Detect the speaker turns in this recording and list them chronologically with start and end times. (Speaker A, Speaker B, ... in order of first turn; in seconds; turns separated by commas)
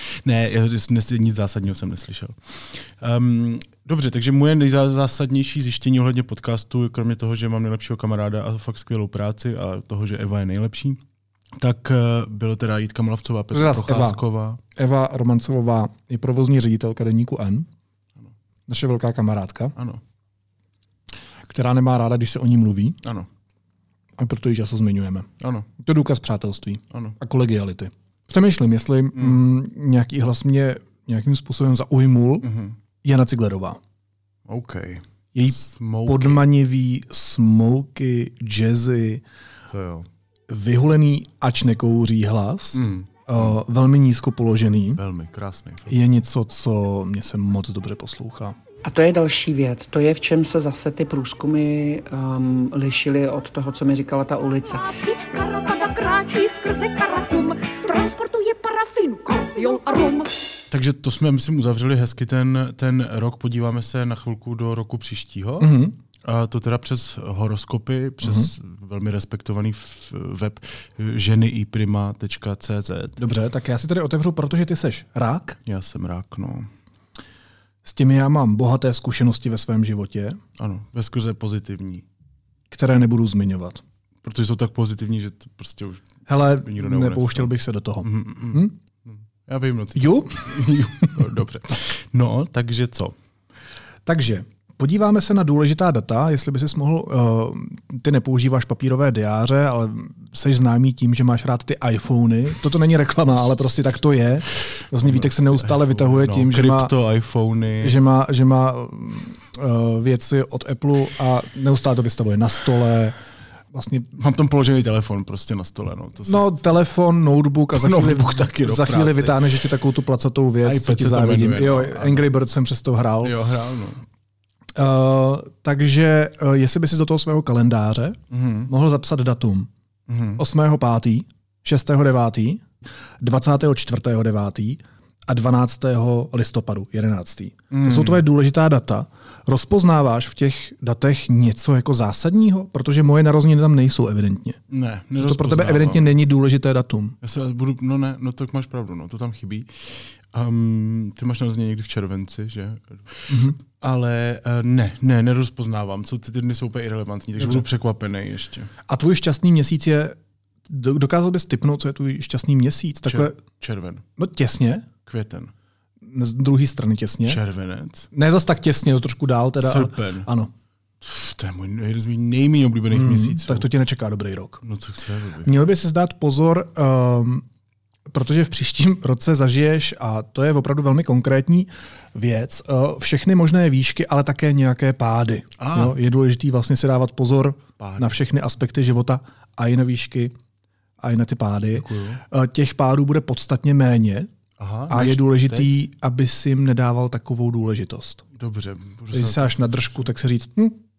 Speaker A: 0.2-11.0, Speaker A: 11.6-14.6, Speaker B: 13.5-14.2, Speaker B: 14.8-17.7, Speaker B: 18.7-19.7, Speaker B: 21.5-23.0, Speaker B: 24.2-25.3, Speaker A: 25.4-25.7, Speaker B: 25.8-32.5, Speaker A: 26.9-27.1, Speaker A: 29.1-29.4, Speaker A: 32.4-32.8, Speaker B: 33.0-33.8, Speaker A: 34.5-36.4, Speaker B: 35.3-39.2, Speaker A: 39.7-40.1, Speaker B: 40.5-45.0, Speaker A: 42.7-43.5, Speaker A: 45.0-45.9, Speaker B: 45.9-48.5, Speaker C: 48.9-54.6, Speaker D: 54.6-60.3, Speaker A: 60.7-65.7, Speaker B: 65.6-65.9, Speaker A: 66.2-73.2, Speaker B: 68.2-68.5, Speaker B: 73.2-75.6, Speaker A: 75.7-76.7, Speaker B: 77.8-80.4, Speaker A: 80.6-82.0, Speaker B: 82.7-83.8, Speaker A: 84.2-87.5, Speaker B: 86.3-88.7, Speaker A: 88.0-93.1, Speaker B: 90.0-90.4, Speaker B: 94.0-106.9, Speaker A: 105.0-108.0, Speaker B: 107.8-113.2, Speaker B: 113.7-114.1, Speaker A: 114.2-116.6, Speaker B: 116.3-123.3, Speaker A: 117.7-119.6, Speaker A: 120.6-122.2, Speaker A: 123.2-124.0, Speaker B: 124.8-129.7, Speaker A: 128.3-128.7, Speaker A: 130.1-130.4, Speaker B: 130.4-132.6, Speaker B: 133.2-144.6, Speaker A: 137.7-138.2, Speaker A: 144.7-146.1, Speaker B: 145.2-147.2, Speaker A: 147.2-158.7, Speaker B: 153.3-153.6, Speaker B: 157.4-157.6, Speaker B: 158.9-160.2, Speaker B: 160.7-163.4, Speaker A: 163.1-164.0, Speaker B: 164.2-164.9, Speaker A: 165.1-165.5, Speaker B: 166.0-167.4, Speaker A: 167.2-168.1, Speaker B: 168.1-170.5, Speaker A: 169.6-170.3, Speaker A: 171.0-173.7, Speaker B: 172.9-174.6, Speaker A: 174.6-175.5, Speaker B: 175.4-177.4, Speaker B: 178.1-190.3, Speaker A: 185.6-185.9, Speaker A: 187.8-188.1, Speaker B: 191.0-194.3, Speaker A: 191.7-192.2, Speaker A: 194.6-195.8, Speaker B: 194.9-198.2, Speaker A: 198.3-200.1, Speaker B: 199.1-200.8